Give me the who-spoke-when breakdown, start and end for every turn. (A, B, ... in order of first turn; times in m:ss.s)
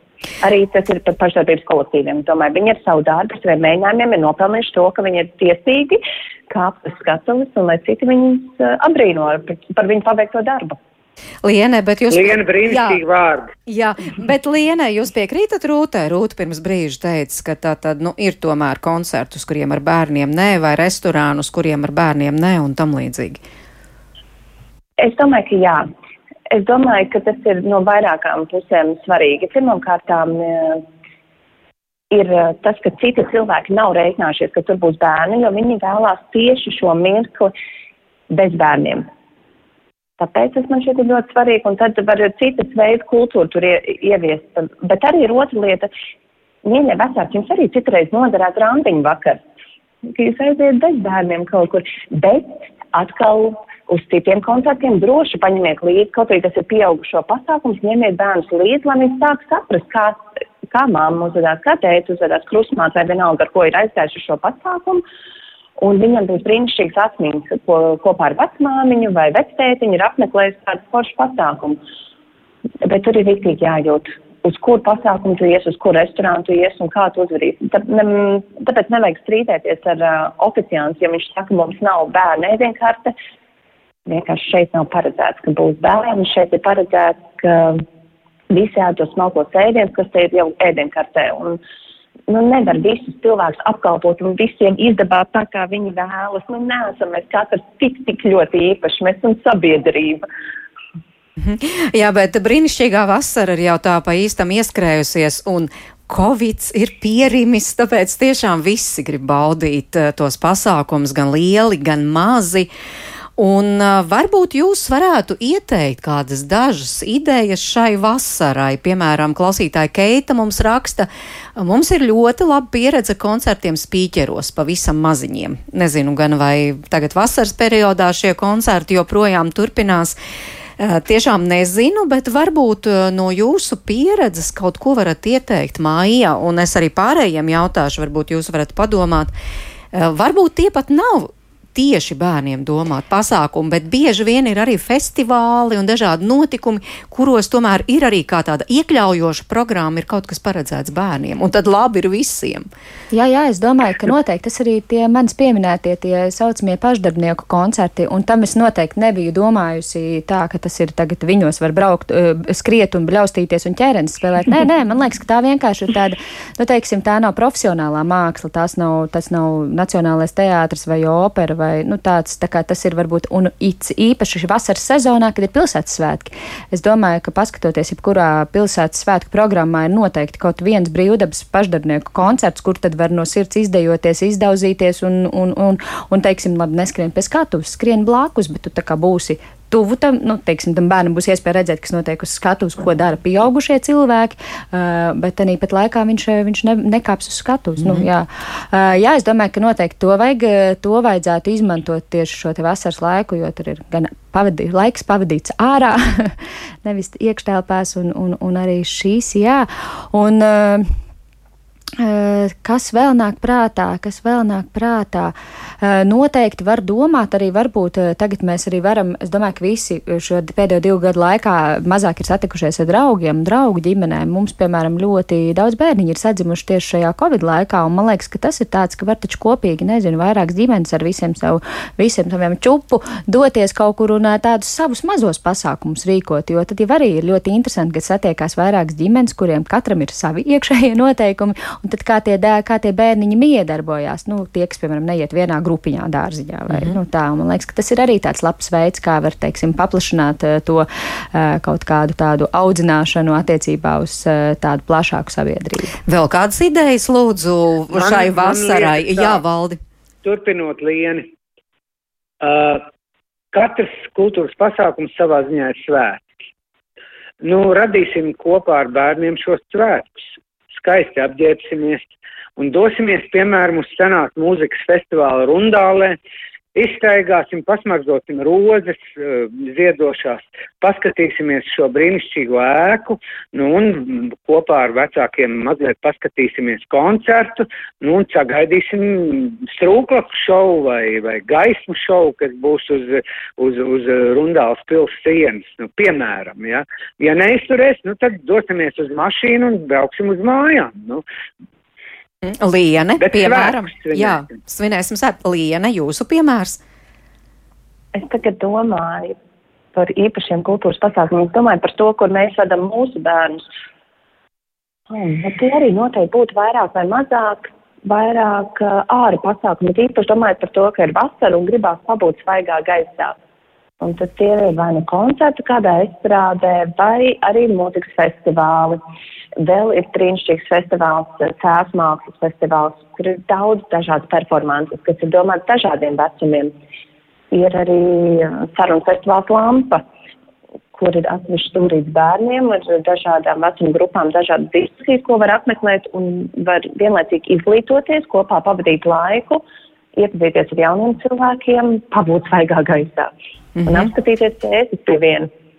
0:00.4-0:10.8 A
0:11.4-0:13.0 B
0:12.1-0:13.5 C
0:13.6-0:23.4 B
0:25.0-0:25.8 A
0:26.5-0:30.8 A
0:32.1-0:37.5 A
0:38.3-0:39.1 A
0:40.2-0:45.9 A
0:46.6-0:49.4 A
0:50.1-1:05.0 A
1:05.8-1:11.8 A
1:12.8-1:23.1 A
1:24.0-1:27.8 A
1:28.5-1:31.6 A
1:32.3-1:40.2 A
1:41.4-1:52.7 B
1:53.4-2:10.2 B
2:10.8-2:19.3 B
2:19.9-2:32.7 B
2:33.1-3:30.9 D
3:32.0-4:15.9 D
4:16.1-4:19.8 B
4:17.9-4:19.4 C
4:20.2-4:21.3 C
4:22.4-4:22.8 C
4:23.5-4:26.2 C
4:27.4-4:36.2 C
4:36.7-5:01.2 C
5:02.4-5:06.8 B
5:03.2-5:04.5 C
5:08.1-5:09.3 A
5:09.9-5:13.6 A
5:15.1-5:23.4 A
5:24.0-5:29.0 A
5:29.6-5:36.7 A
5:37.5-5:40.0 A
5:40.9-5:49.6 A
5:50.2-5:53.3 A
5:53.8-5:54.1 B
5:53.8-5:55.5 A